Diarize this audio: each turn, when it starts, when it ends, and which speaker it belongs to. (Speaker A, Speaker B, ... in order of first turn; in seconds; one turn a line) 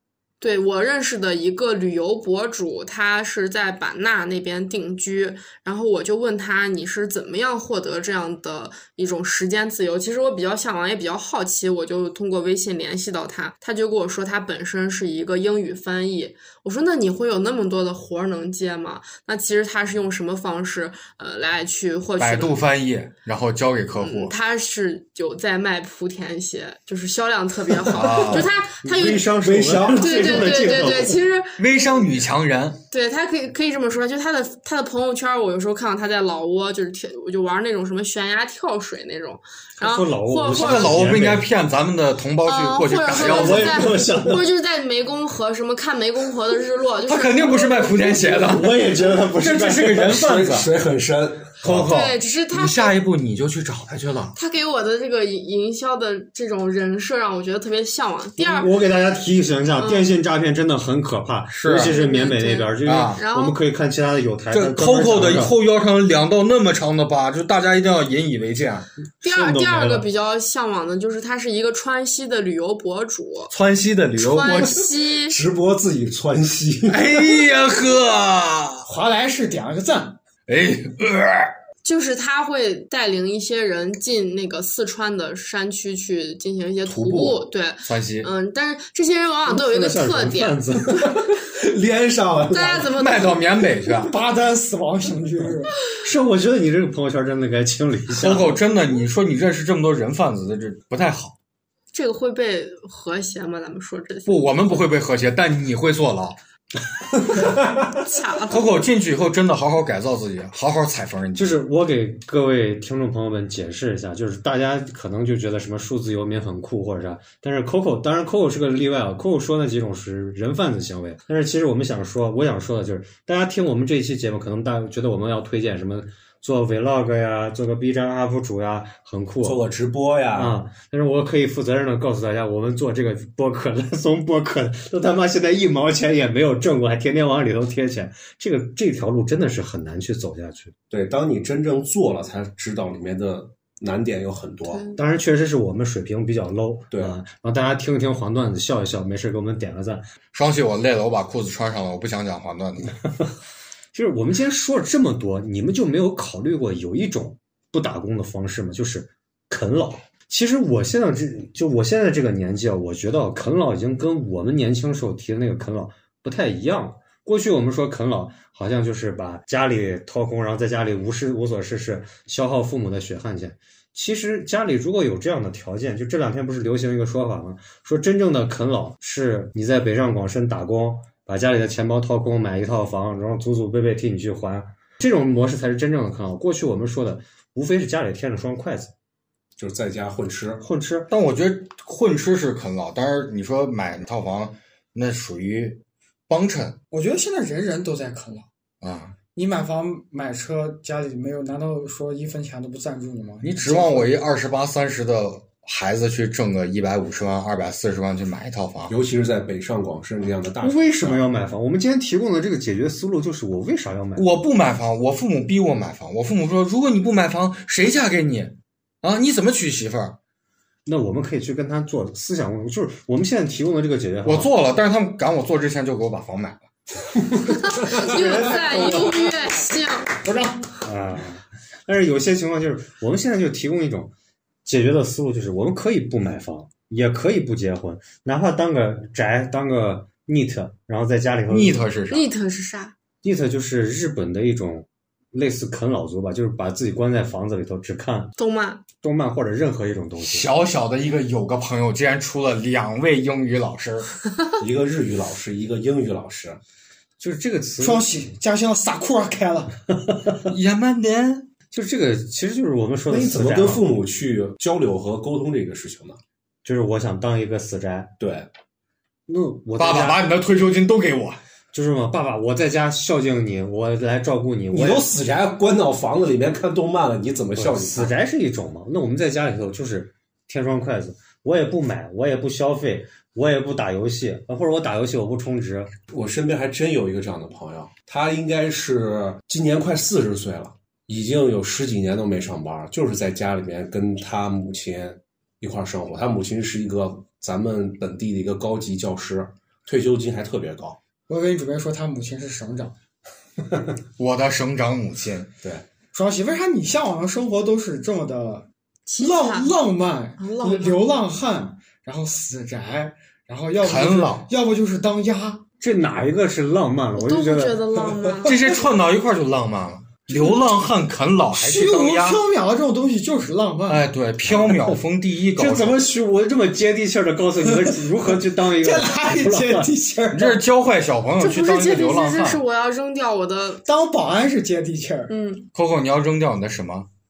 Speaker A: 0.4-22.6
Speaker B: 22.2-24.3
Speaker A: 24.0-29.3
Speaker B: 27.9-28.6
Speaker C: 28.8-31.2
Speaker D: 29.3-30.8
Speaker A: 29.9-32.1
Speaker B: 31.6-32.8
Speaker A: 32.9-41.1
Speaker C: 39.8-41.5
Speaker B: 40.5-43.9
Speaker A: 42.4-48.3
Speaker C: 43.1-44.5
Speaker B: 47.0-48.8
Speaker C: 48.4-50.6
Speaker B: 49.4-50.7
Speaker D: 50.1-51.9
Speaker B: 51.6-54.4
Speaker A: 51.8-53.0
Speaker A: 54.4-58.7
Speaker C: 58.4-65.5
Speaker A: 59.8-60.1
Speaker B: 61.5-62.0
Speaker A: 61.7-63.6
Speaker B: 62.8-63.2
Speaker B: 64.5-68.9
Speaker C: 69.2-70.1
Speaker A: 69.2-73.5
Speaker B: 73.5-74.8
Speaker A: 74.2-75.4
Speaker D: 74.5-77.3
Speaker B: 76.9-78.9
Speaker E: 78.8-80.2
Speaker B: 80.5-81.5
Speaker A: 81.8-90.6
Speaker D: 86.8-87.4
Speaker B: 87.8-88.3
Speaker C: 89.5-91.1
Speaker D: 90.9-92.9
Speaker A: 92.5-93.7
Speaker B: 92.9-94.1
Speaker E: 94.0-95.7
Speaker C: 96.0-98.6
Speaker B: 98.1-101.4
Speaker A: 101.9-104.6
Speaker B: 104.2-106.4
Speaker A: 107.9-108.8
Speaker B: 108.5-111.6
Speaker C: 111.3-129.6
Speaker D: 129.4-130.6
Speaker C: 130.3-140.7
Speaker D: 140.9-144.8
Speaker A: 144.7-145.0
Speaker C: 144.9-150.0
Speaker D: 146.9-147.2
Speaker B: 150.3-152.9
Speaker C: 153.9-188.9
Speaker D: 189.6-190.6
Speaker C: 190.6-191.1
Speaker B: 191.1-196.8
Speaker E: 196.9-198.4
Speaker B: 198.8-199.2
Speaker E: 199.3-204.1
Speaker B: 203.4-208.9
Speaker D: 208.9-211.2
Speaker C: 210.6-214.3
Speaker B: 214.2-220.2
Speaker C: 220.8-224.5
Speaker B: 224.2-226.7
Speaker A: 227.4-230.1
Speaker E: 228.2-228.8
Speaker E: 230.2-230.7
Speaker C: 230.8-234.1
Speaker C: 234.6-241.8
Speaker B: 241.5-242.3
Speaker A: 242.1-242.9
Speaker C: 243.2-248.3
Speaker A: 248.4-248.8
Speaker C: 249.0-250.5
Speaker B: 250.2-254.1
Speaker D: 254.6-256.6
Speaker C: 257.2-258.1
Speaker E: 257.8-259.8
Speaker C: 260.1-260.4
Speaker B: 260.5-261.5
Speaker C: 261.7-263.9
Speaker D: 263.1-266.2
Speaker C: 266.6-268.1
Speaker D: 268.2-268.5
Speaker C: 269.3-270.2
Speaker B: 269.8-271.4
Speaker C: 271.7-275.1
Speaker D: 274.7-278.1
Speaker C: 277.6-285.9
Speaker D: 286.1-301.0
Speaker E: 301.3-302.9
Speaker B: 304.2-305.5
Speaker E: 306.1-308.6
Speaker A: 309.1-309.7
Speaker E: 309.2-315.6
Speaker A: 310.4-311.1
Speaker B: 313.8-314.5
Speaker C: 315.8-317.8
Speaker A: 317.1-318.8
Speaker B: 318.4-322.4
Speaker E: 321.5-324.1
Speaker B: 323.9-326.0
Speaker C: 324.5-324.9
Speaker C: 325.5-329.9
Speaker E: 328.6-330.6
Speaker B: 330.3-332.6
Speaker A: 331.4-333.8
Speaker E: 333.8-335.3
Speaker A: 335.3-335.7
Speaker B: 335.7-337.1